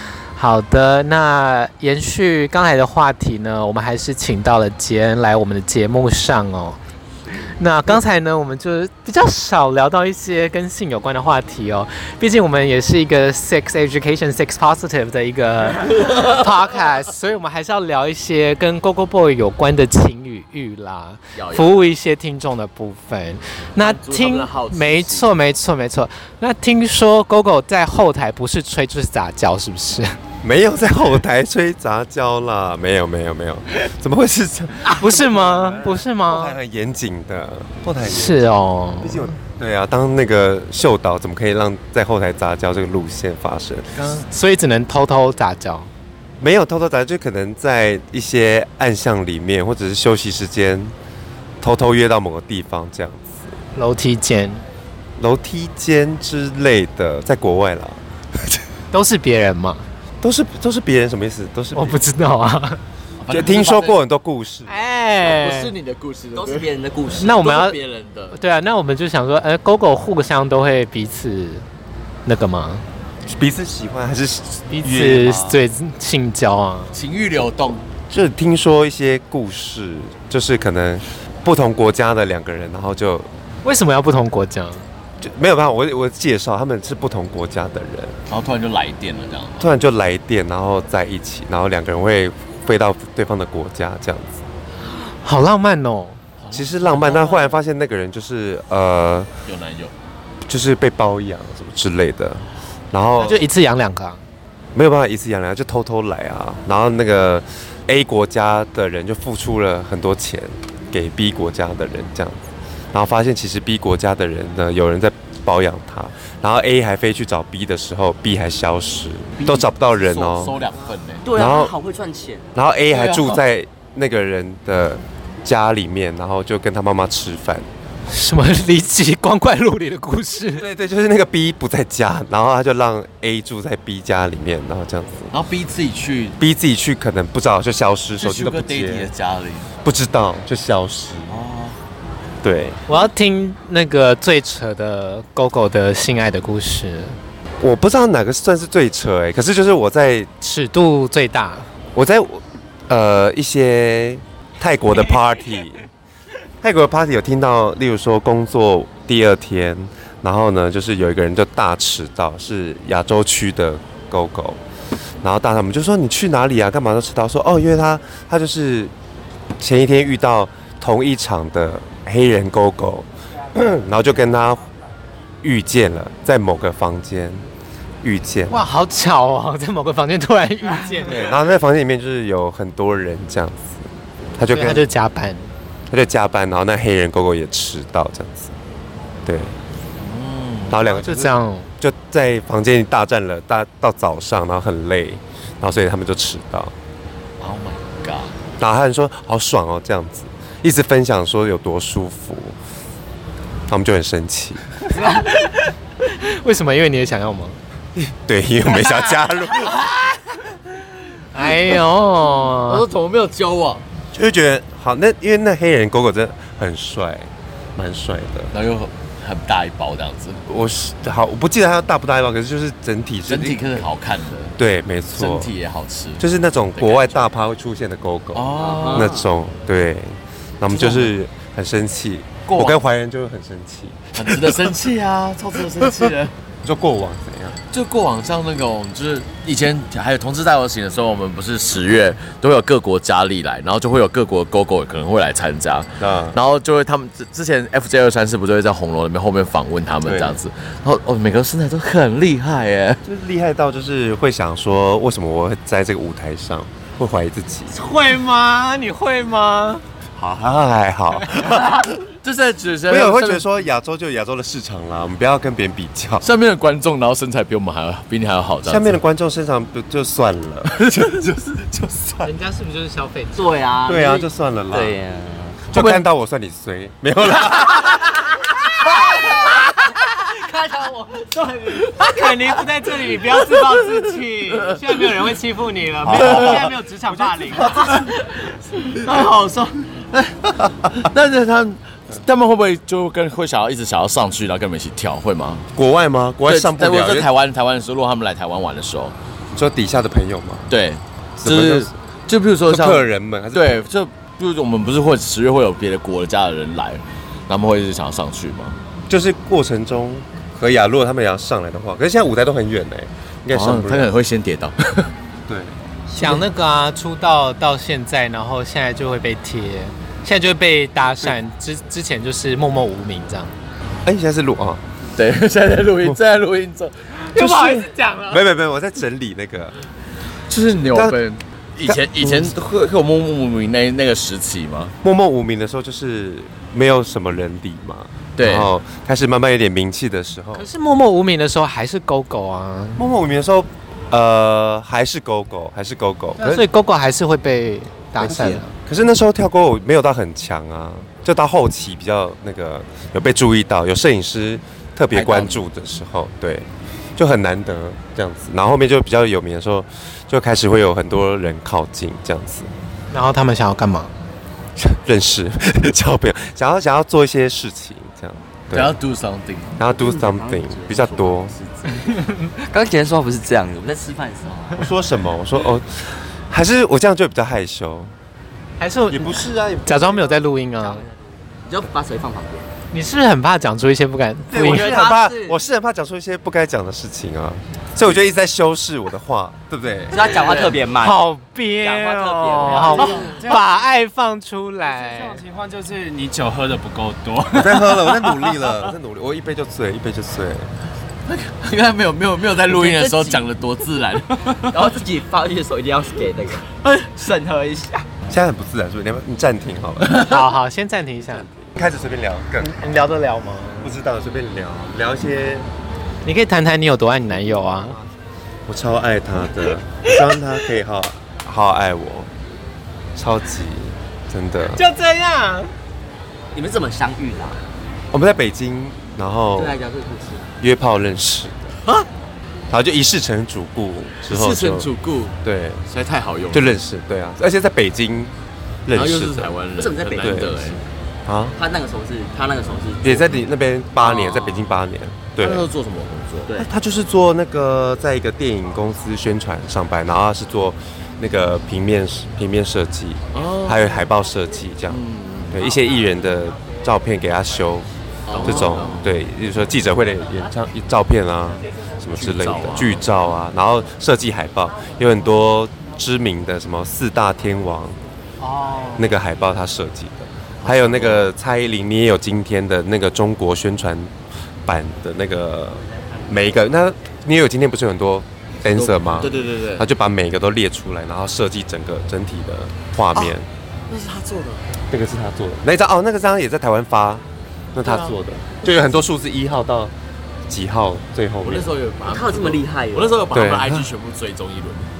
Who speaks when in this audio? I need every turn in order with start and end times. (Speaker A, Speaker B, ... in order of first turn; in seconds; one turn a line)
Speaker A: 0.3-6.8
Speaker A: 7.6-30.2
Speaker B: 21.4-21.9
Speaker B: 23.8-25.3
Speaker C: 30.4-38.5
Speaker A: 34.9-36.5
Speaker A: 38.1-39.4
Speaker C: 39.0-43.9
Speaker A: 44.0-45.9
Speaker C: 46.4-51.0
Speaker C: 51.6-53.5
Speaker A: 53.8-54.6
Speaker C: 55.2-58.6
Speaker A: 58.9-59.9
Speaker C: 60.2-62.0
Speaker A: 61.8-62.8
Speaker B: 63.2-64.0
Speaker C: 63.3-64.7
Speaker A: 64.7-65.7
Speaker B: 65.2-68.4
Speaker D: 66.3-67.4
Speaker A: 67.2-67.8
Speaker A: 68.3-71.7
Speaker A: 72.2-72.8
Speaker C: 73.3-75.6
Speaker A: 74.7-77.0
Speaker B: 76.9-77.8
Speaker C: 78.1-83.3
Speaker A: 83.6-84.8
Speaker C: 85.2-88.2
Speaker B: 88.3-89.7
Speaker C: 89.6-94.4
Speaker A: 95.1-96.2
Speaker B: 96.4-97.6
Speaker C: 96.5-99.3
Speaker B: 99.5-99.9
Speaker C: 100.5-103.4
Speaker A: 103.2-104.2
Speaker C: 104.8-120.6
Speaker B: 119.4-121.3
Speaker D: 121.2-123.2
Speaker C: 121.3-121.7
Speaker C: 122.5-127.7
Speaker B: 123.0-123.4
Speaker A: 128.1-130.6
Speaker C: 130.6-135.3
Speaker B: 135.3-136.4
Speaker C: 136.4-139.1
Speaker B: 138.2-139.7
Speaker C: 139.8-141.4
Speaker B: 141.3-141.8
Speaker C: 142.4-142.8
Speaker A: 142.9-147.2
Speaker C: 147.6-150.3
Speaker A: 150.4-151.7
Speaker C: 151.9-155.8
Speaker C: 156.6-164.6
Speaker C: 165.2-168.9
Speaker C: 169.6-174.7
Speaker C: 175.4-177.5
Speaker C: 178.0-178.6
Speaker A: 178.5-181.3
Speaker C: 181.0-184.9
Speaker A: 184.5-185.5
Speaker C: 185.9-188.5
Speaker C: 189.2-189.6
Speaker B: 190.0-190.8
Speaker C: 190.7-196.7
Speaker A: 190.8-191.7
Speaker B: 197.4-198.3
Speaker C: 198.6-202.6
Speaker C: 203.7-204.7
Speaker A: 205.0-207.6
Speaker C: 207.9-209.9
Speaker A: 211.3-212.8
Speaker B: 211.4-213.8
Speaker C: 214.1-218.5
Speaker B: 218.5-220.4
Speaker C: 220.5-223.8
Speaker B: 223.3-224.6
Speaker C: 224.6-225.5
Speaker B: 225.2-227.4
Speaker C: 226.2-234.2
Speaker B: 228.3-229.2
Speaker D: 228.6-229.3
Speaker B: 230.7-231.2
Speaker B: 232.5-232.8
Speaker B: 234.2-236.3
Speaker C: 236.6-237.6
Speaker B: 237.7-253.0
Speaker C: 246.0-246.4
Speaker C: 250.1-250.4
Speaker C: 253.1-257.8
Speaker A: 257.7-259.8
Speaker C: 260.2-261.8
Speaker B: 261.4-263.6
Speaker C: 262.9-266.3
Speaker B: 266.2-269.0
Speaker C: 268.6-270.9
Speaker B: 270.7-272.2
Speaker A: 272.2-273.4
Speaker D: 273.3-275.6
Speaker C: 273.9-275.0
Speaker B: 275.7-276.0
Speaker C: 275.7-278.4
Speaker A: 280.4-288.1
Speaker D: 280.4-281.9
Speaker B: 284.5-285.0
Speaker C: 286.0-286.7
Speaker B: 286.1-286.6
Speaker C: 287.4-287.9
Speaker B: 288.9-295.6
Speaker C: 295.8-297.3
Speaker B: 296.5-299.1
Speaker C: 299.6-300.7
Speaker B: 300.7-308.8
Speaker C: 301.4-301.9
Speaker C: 302.7-303.9
Speaker C: 309.1-314.1
Speaker B: 313.5-315.1
Speaker C: 315.5-315.7
Speaker A: 316.1-323.5
Speaker C: 324.1-324.8
Speaker B: 325.2-327.0
Speaker A: 327.3-328.4
Speaker C: 327.4-329.8
Speaker B: 330.5-334.9
Speaker C: 330.9-331.2
Speaker C: 331.9-332.5
Speaker C: 335.0-340.7
Speaker B: 338.4-338.7
Speaker A: 340.6-343.0
Speaker C: 343.0-346.7
Speaker A: 346.4-348.7
Speaker C: 348.2-362.7
Speaker D: 355.2-355.6
Speaker A: 363.1-364.1
Speaker C: 364.8-369.0
Speaker B: 368.7-369.8
Speaker C: 369.8-371.5
Speaker D: 369.9-374.9
Speaker C: 374.8-378.1
Speaker A: 378.8-381.1
Speaker C: 379.1-380.4
Speaker D: 380.8-381.1
Speaker D: 381.7-382.7
Speaker A: 382.9-385.1
Speaker C: 384.5-390.3
Speaker D: 384.6-385.6
Speaker D: 390.1-391.2
Speaker B: 390.3-390.8
Speaker A: 391.0-395.4
Speaker D: 391.8-393.5
Speaker E: 392.8-393.6
Speaker E: 394.8-398.6
Speaker C: 397.5-400.7
Speaker B: 401.3-404.9
Speaker D: 402.6-403.4
Speaker D: 404.6-408.1
Speaker C: 408.3-410.4
Speaker A: 410.2-411.5
Speaker C: 411.7-412.8
Speaker A: 412.6-413.9
Speaker C: 413.8-415.7
Speaker A: 416.2-418.0
Speaker C: 417.3-418.1
Speaker C: 418.7-422.3
Speaker C: 423.1-424.8
Speaker A: 424.7-425.7
Speaker D: 426.5-427.6
Speaker C: 428.1-429.8
Speaker D: 429.6-430.5
Speaker C: 430.6-431.8
Speaker C: 432.7-434.9
Speaker B: 434.3-436.8
Speaker C: 435.4-435.8
Speaker C: 436.5-438.4
Speaker C: 438.9-439.5
Speaker B: 438.9-440.8
Speaker D: 439.8-440.8
Speaker C: 440.2-440.6
Speaker C: 441.3-441.6
Speaker D: 441.6-443.4
Speaker C: 443.0-445.7
Speaker B: 444.0-444.8
Speaker B: 445.4-446.7
Speaker C: 446.6-455.0
Speaker B: 453.3-454.1
Speaker B: 454.9-455.7
Speaker C: 455.5-457.9
Speaker B: 458.3-459.2
Speaker C: 458.4-468.0
Speaker B: 462.2-463.0
Speaker A: 468.4-469.1
Speaker C: 469.0-474.1
Speaker B: 470.6-471.3
Speaker C: 474.7-483.5
Speaker B: 478.6-479.9
Speaker B: 483.9-484.6
Speaker C: 484.9-489.9
Speaker C: 490.5-491.7
Speaker B: 491.4-494.9
Speaker D: 492.1-493.3
Speaker C: 493.3-493.9